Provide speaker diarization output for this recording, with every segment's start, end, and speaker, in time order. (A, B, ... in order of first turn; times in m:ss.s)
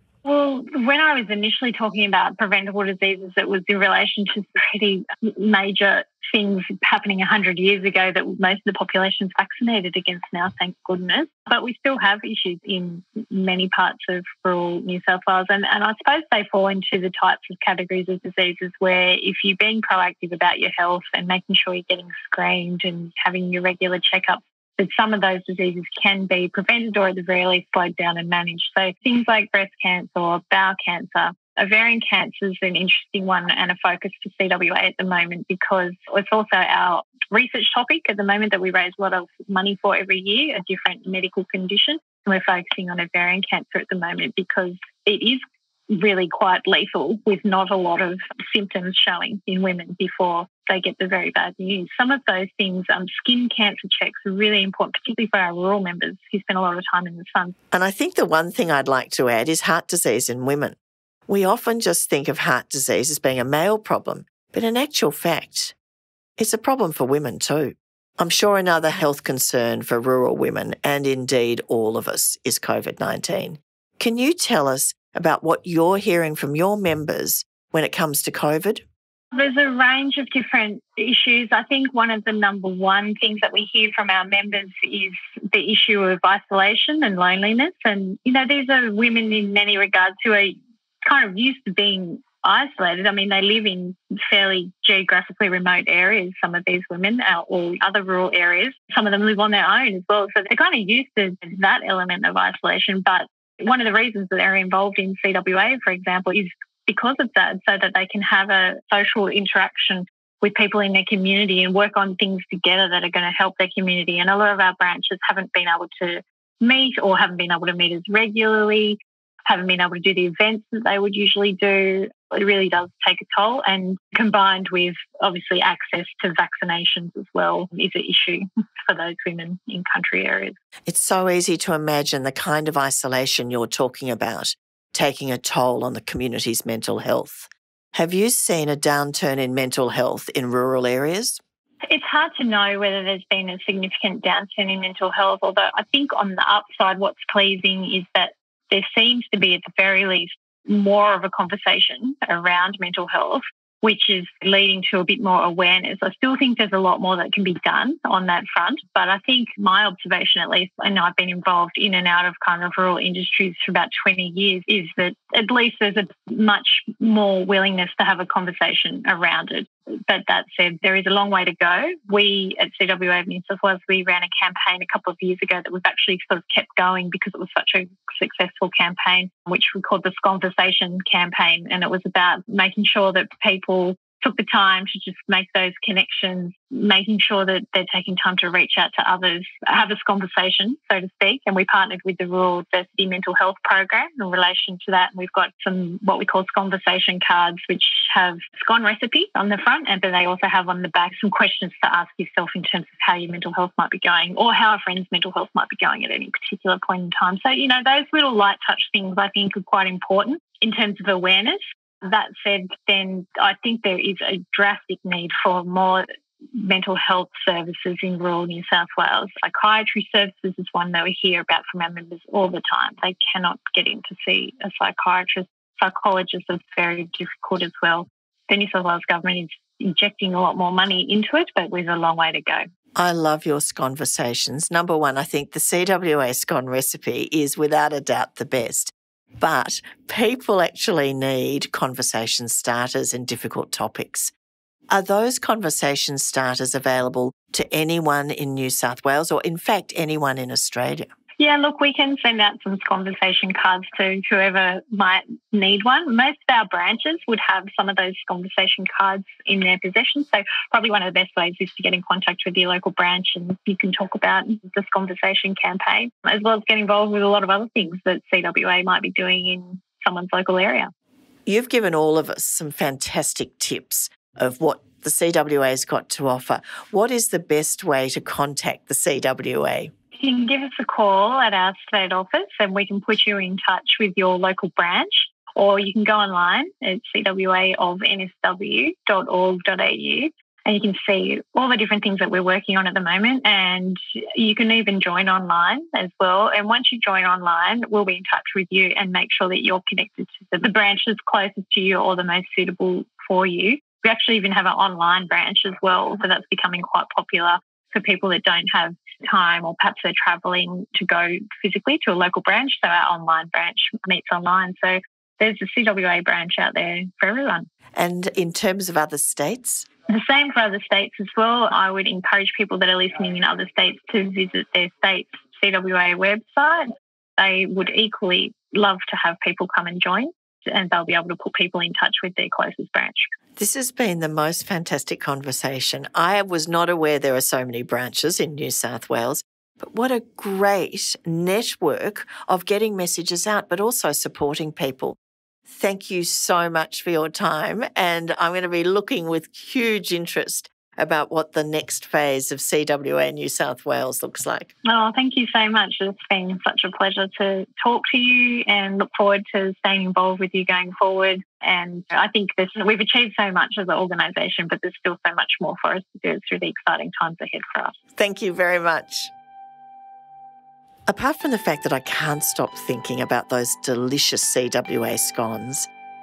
0:00.2-0:57.6 A
0:57.7-1:05.7 B
1:06.4-1:18.8 B
1:19.3-2:10.6 A
2:10.9-2:21.4 B
2:21.9-3:52.6 A
3:53.0-4:04.3 B
4:04.9-4:11.1 B
4:11.4-4:30.9 A
4:31.4-4:39.9 B
4:40.2-5:17.7 A
5:17.9-5:19.9 B
5:20.1-5:33.3 A
5:33.6-5:54.7 B
5:54.8-6:07.9 A
6:08.2-6:09.3 B
6:11.1-6:15.9 B